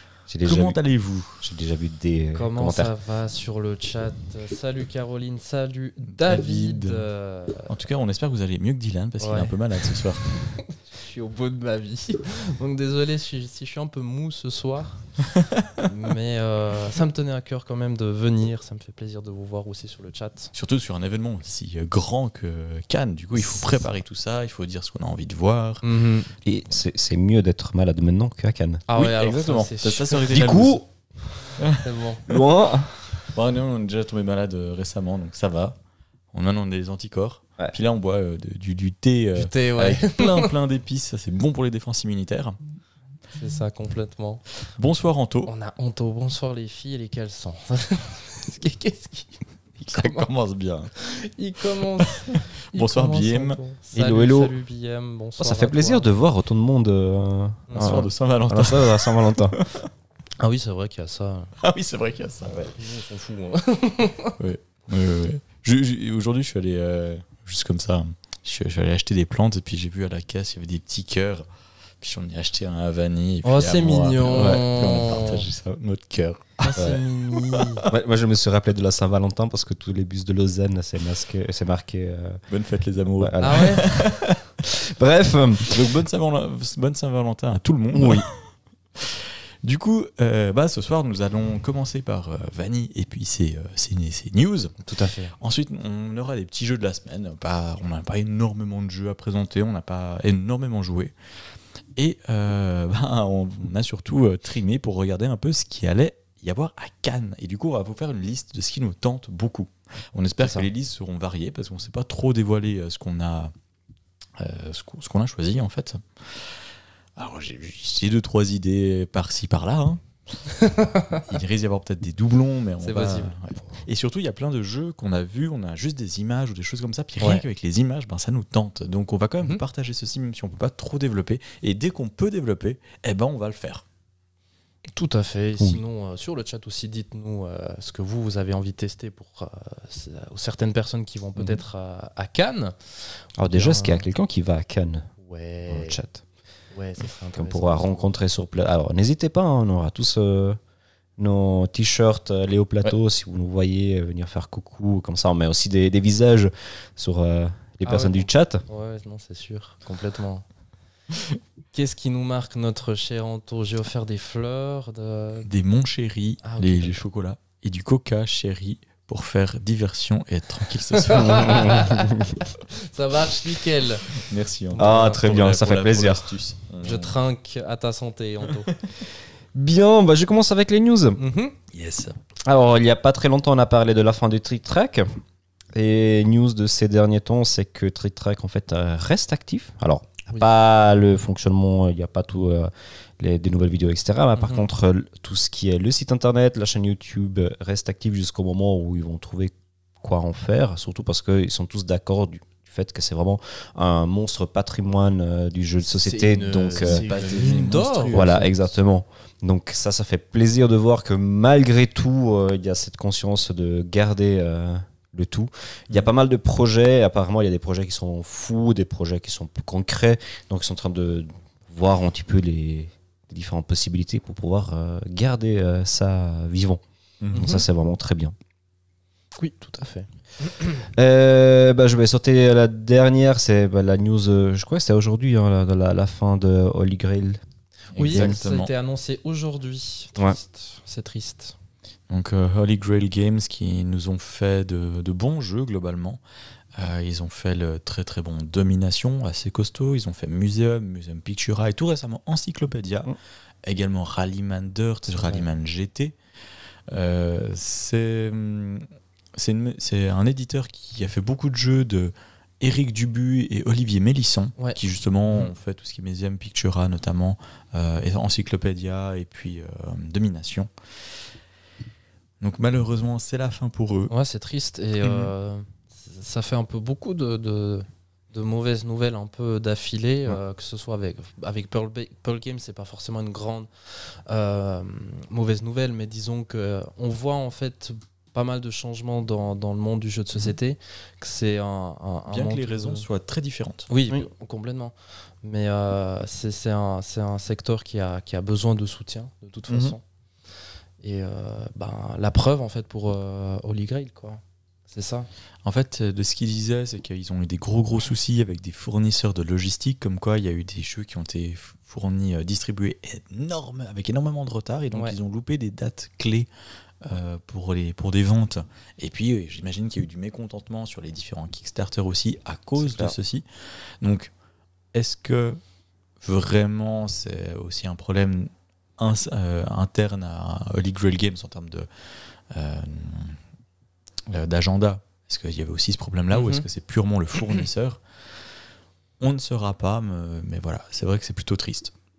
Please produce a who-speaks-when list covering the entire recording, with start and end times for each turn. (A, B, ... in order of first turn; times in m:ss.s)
0:00.3-0:00.8 A
0:00.4-0:01.4 B
0:01.4-0:02.9 A
0:02.3-0:07.7 C
0:06.1-0:07.0 B
0:07.7-0:10.2 B
0:09.2-0:09.6 C
0:10.4-0:15.0 C
0:15.4-0:15.8 B
0:15.8-0:20.5 C
0:20.5-0:25.9 B
0:23.3-0:23.7 C
0:25.8-0:26.3 C
0:26.4-0:28.8 A
0:28.9-0:30.3 C
0:28.9-0:30.8 B
0:30.2-0:30.9 A
0:31.6-0:31.9 B
0:31.8-0:32.2 C
0:32.2-0:33.2 A
0:33.3-0:35.8 B
0:36.3-0:42.6 B
0:39.4-0:40.5 C
0:43.3-0:44.4 C
0:44.7-0:45.5 B
0:45.4-0:50.3 C
0:49.9-0:50.9 B
0:50.9-0:56.1 C
0:52.0-0:53.6 B
0:53.9-0:54.5 A
0:55.4-0:59.6 A
0:57.7-0:58.1 C
0:57.7-0:59.9 B
1:00.4-1:01.5 C
1:01.6-1:02.8 B
1:02.8-1:04.3 C
1:04.4-1:11.4 B
1:12.0-1:17.9 B
1:13.4-1:15.4 C
1:16.6-1:17.8 C
1:17.9-1:22.4 A
1:22.5-1:24.4 B
1:23.2-1:26.0 A
1:23.4-1:23.9 C
1:25.6-1:34.8 B
1:27.9-1:28.3 A
1:34.8-1:35.4 C
1:35.4-1:41.1 B
1:42.0-1:53.5 B
1:50.4-1:50.7 A
1:54.4-1:56.5 B
1:57.2-2:00.0 B
2:00.5-2:01.2 C
2:01.1-2:13.8 B
2:02.8-2:03.3 C
2:14.9-2:22.7 C
2:23.4-2:25.1 A
2:23.5-2:24.0 C
2:25.2-2:26.0 C
2:25.7-2:26.2 A
2:26.7-2:28.2 C
2:27.3-2:30.6 A
2:31.2-2:38.6 A
2:37.8-2:40.4 C
2:41.7-2:45.5 C
2:45.4-2:51.8 B
2:46.4-2:47.0 C
2:51.0-2:55.2 C
2:51.2-2:52.4 A
2:54.1-2:57.2 B
2:54.8-2:56.4 A
2:56.8-2:58.7 C
2:59.5-3:01.2 A
3:01.2-3:01.6 C
3:01.7-3:02.2 B
3:02.4-3:05.1 A
3:05.7-3:27.0 A
3:14.4-3:14.6 C
3:25.8-3:28.5 C
3:26.7-3:28.6 B
3:28.1-3:46.8 A
3:47.2-3:47.5 B
3:47.3-3:47.6 C
3:47.3-3:48.3 A
3:49.4-3:50.7 C
3:50.9-3:57.4 A
3:57.9-3:58.7 B
3:58.0-4:01.6 C
3:58.1-3:58.4 A
4:02.1-4:06.2 B
4:06.8-4:13.1 B
4:13.6-4:16.1 B
4:15.1-4:15.4 C
4:16.9-4:30.7 B
4:32.4-4:34.1 B
4:34.1-4:43.7 C
4:35.0-4:35.3 B
4:44.3-4:53.1 C
4:52.3-4:53.9 B
4:53.9-5:00.0 C
4:59.7-5:00.0 B
5:01.0-5:05.3 C
5:05.6-5:16.5 B
5:17.0-5:23.4 B
5:22.8-5:23.1 A
5:24.0-5:24.3 B
5:24.9-5:25.6 B
5:26.2-5:31.9 B
5:32.5-5:33.4 B
5:34.3-5:38.0 B
5:36.3-5:36.6 C
5:39.2-5:41.9 B